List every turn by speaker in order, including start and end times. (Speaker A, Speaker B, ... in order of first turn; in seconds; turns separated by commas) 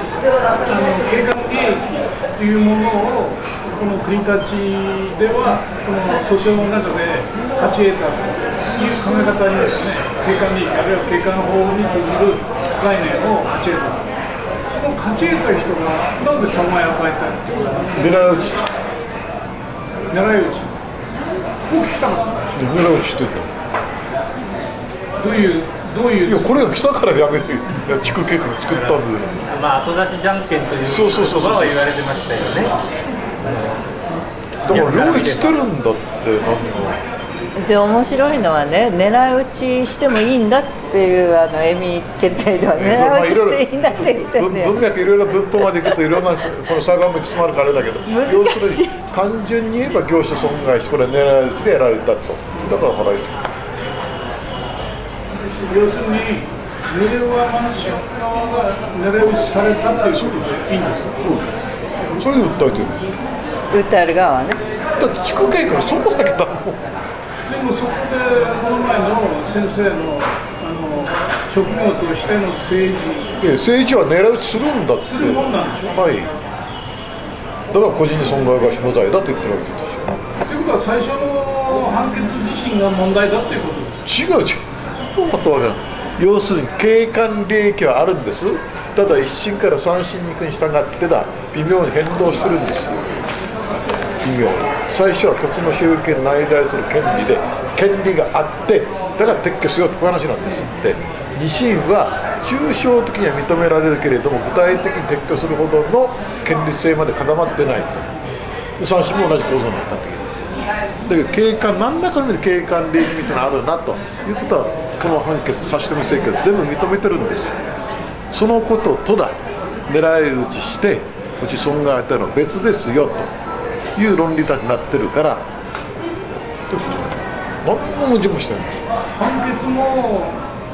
Speaker A: 0.7-14.0, Speaker A: 14.7-18.0, Speaker B: 17.9-18.6, Speaker A: 20.1-20.8, Speaker A: 21.6-22.4, Speaker B: 22.5-23.5, Speaker A: 25.2-26.6, Speaker B: 26.2-29.4, Speaker C: 28.7-32.8, Speaker B: 30.9-31.8, Speaker B: 32.4-32.7, Speaker C: 33.4-33.8, Speaker B: 34.6-37.0, Speaker C: 34.7-35.5, Speaker D: 37.5-44.7, Speaker B: 42.7-53.5, Speaker D: 48.1-49.0, Speaker A: 55.6-61.2, Speaker B: 60.1-60.6, Speaker B: 61.2-61.5, Speaker B: 62.1-63.1, Speaker D: 63.7-64.6, Speaker B: 65.0-66.8, Speaker A: 67.5-73.3, Speaker B: 73.4-76.3, Speaker A: 75.0-76.0, Speaker B: 77.7-80.2, Speaker A: 80.5-84.1, Speaker B: 84.0-93.1, Speaker B: 94.2-108.1, Speaker B: 108.8-110.2, Speaker B: 111.0-117.6, Speaker B: 118.3-119.4, Speaker B: 119.9-123.3, Speaker B: 124.0-125.5, Speaker B: 126.7-128.8, Speaker A: 129.2-130.4